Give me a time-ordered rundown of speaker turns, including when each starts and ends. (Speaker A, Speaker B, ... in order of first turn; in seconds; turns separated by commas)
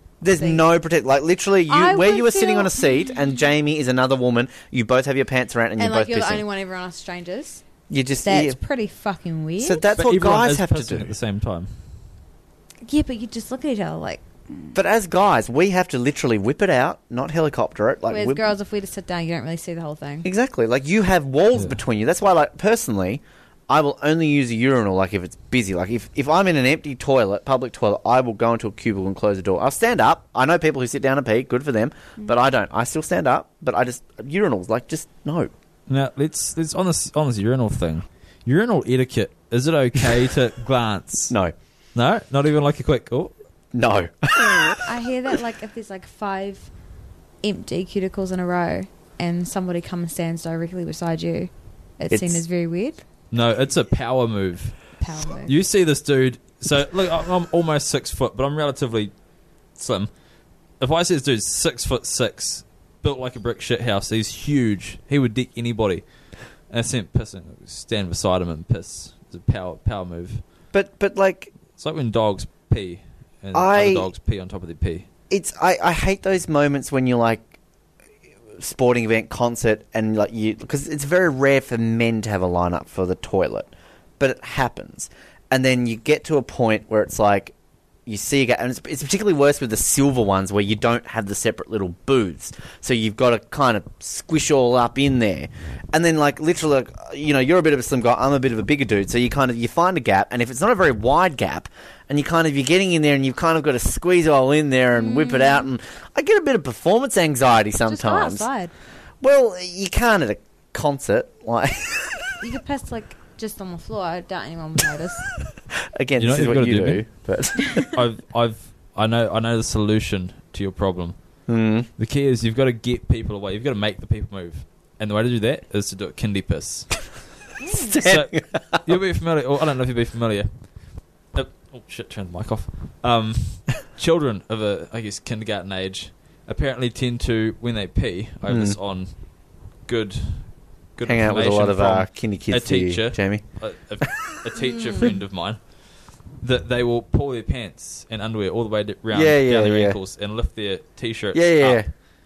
Speaker A: 0.2-6.4, Speaker B: 0.3-0.7, Speaker B: 1.7-3.2, Speaker B: 5.8-7.7, Speaker A: 7.9-8.6, Speaker B: 8.2-9.8, Speaker A: 9.6-11.1, Speaker C: 10.0-11.9, Speaker B: 12.8-14.2, Speaker A: 14.7-18.4, Speaker B: 18.1-20.3, Speaker A: 20.2-35.5, Speaker C: 35.9-41.3, Speaker C: 42.0-43.3, Speaker A: 43.7-44.9, Speaker B: 44.9-46.7, Speaker B: 47.4-53.0, Speaker A: 52.1-52.4, Speaker C: 53.3-59.1, Speaker B: 55.0-55.5, Speaker C: 59.8-60.1, Speaker C: 60.8-70.4, Speaker A: 70.7-71.5, Speaker C: 71.8-75.1, Speaker A: 73.5-74.1, Speaker A: 75.3-77.6, Speaker A: 78.6-87.5, Speaker A: 88.1-108.5, Speaker B: 105.0-105.7, Speaker B: 107.9-108.7, Speaker A: 109.2-112.3, Speaker B: 112.4-115.3, Speaker A: 116.0-117.8, Speaker C: 116.2-117.3, Speaker C: 117.9-127.1, Speaker A: 121.5-121.9, Speaker B: 127.6-128.0, Speaker A: 127.7-128.8, Speaker C: 128.1-151.9, Speaker A: 138.5-138.8, Speaker A: 141.0-143.6, Speaker B: 144.6-145.2, Speaker A: 149.1-150.0, Speaker A: 151.3-151.9